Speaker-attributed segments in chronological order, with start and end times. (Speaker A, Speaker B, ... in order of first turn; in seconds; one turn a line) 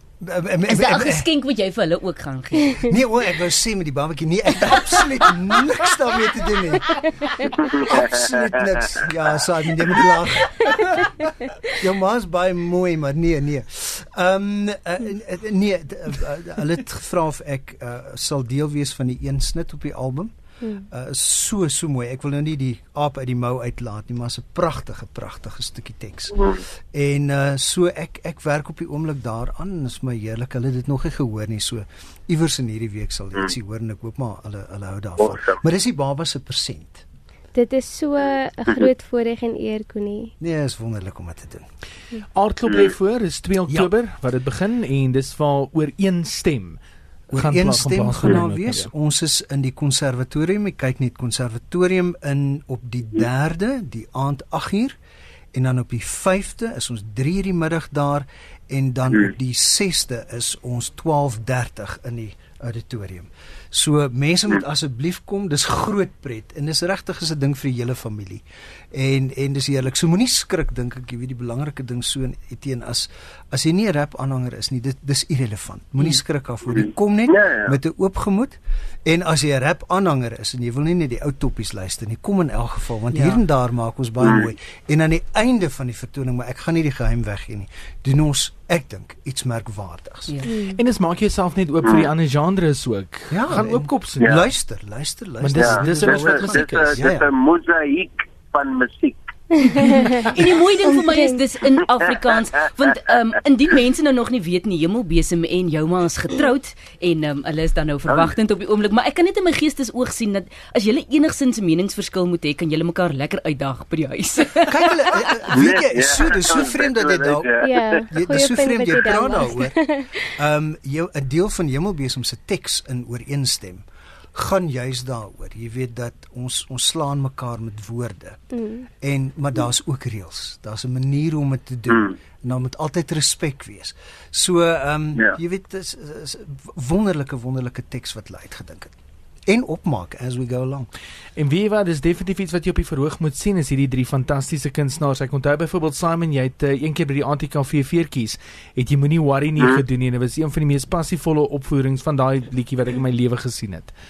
Speaker A: 0.2-1.3
Speaker B: 0.7-2.8
Speaker A: 2.8-20.3
Speaker A: 20.9-37.0
Speaker C: 37.5-40.3
Speaker A: 40.4-41.6
Speaker D: 42.3-46.8
Speaker A: 47.3-55.0
Speaker D: 47.3-48.9
Speaker A: 55.5-90.4
Speaker E: 77.3-77.7
Speaker B: 83.1-83.4
Speaker B: 90.3-90.6
Speaker C: 90.5-90.8
Speaker D: 90.7-94.4
Speaker A: 93.3-97.3
Speaker D: 95.4-97.0
Speaker E: 95.7-99.2
Speaker C: 99.5-100.2
Speaker B: 99.7-114.9
Speaker A: 114.7-117.5
Speaker E: 115.9-116.5
Speaker C: 117.6-120.3
Speaker A: 118.1-119.8
Speaker A: 120.4-128.4
Speaker C: 128.5-128.9
Speaker A: 129.0-139.0
Speaker A: 139.5-140.9
Speaker D: 141.4-153.9